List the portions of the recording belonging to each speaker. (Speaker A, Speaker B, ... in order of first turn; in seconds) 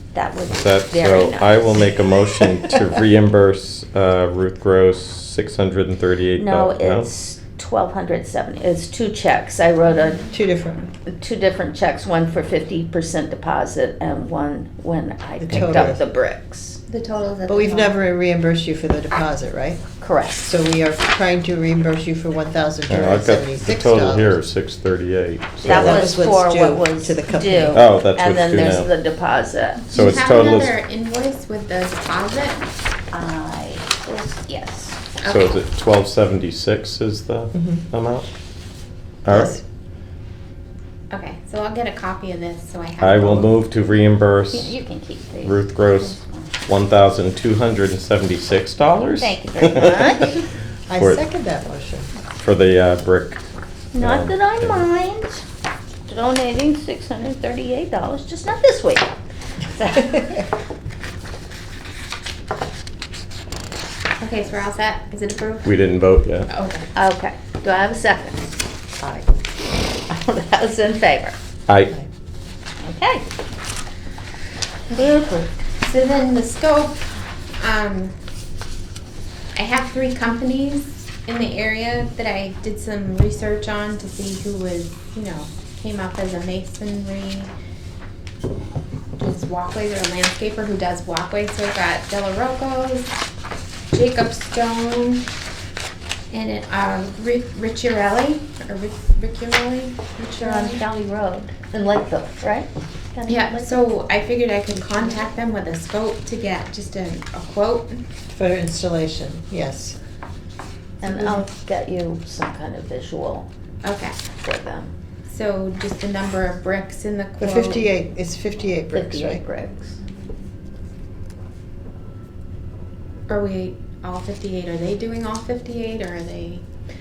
Speaker A: 0.1-2.6, 6.3-10.3, 11.1-16.8, 20.0-20.5, 25.6-30.0, 33.1-35.1, 44.5-46.5, 49.0-50.3, 53.9-55.4, 56.1-59.1, 59.7-60.5, 66.9-68.6, 70.1-71.3, 72.8-73.3, 74.9-75.5, 100.4-103.8, 111.0-113.5, 114.3-114.9, 118.9-120.0
Speaker B: 0.5-7.1, 15.5-15.9, 22.9-26.1, 27.7-28.9, 29.9-30.7, 35.2-38.3, 39.2-39.6, 43.0-44.7, 45.4-50.2, 52.4-53.4, 54.0-54.9, 65.6-66.5, 71.7-71.9
Speaker C: 10.2-10.9, 15.4-16.0, 17.4-24.4, 25.6-27.8, 37.5-37.8, 39.3-39.6, 49.8-52.1, 69.0-69.2, 108.3-110.0, 117.4-119.4
Speaker D: 16.9-17.9, 29.9-32.6, 35.2-35.5, 41.1-43.5, 64.2-65.8, 66.5-66.9, 75.8-77.1, 77.6-78.1, 79.5-87.5, 89.2-93.2, 93.9-95.3, 96.3-100.8, 103.2-108.0, 113.8-114.2, 115.2-117.9, 123.3-126.6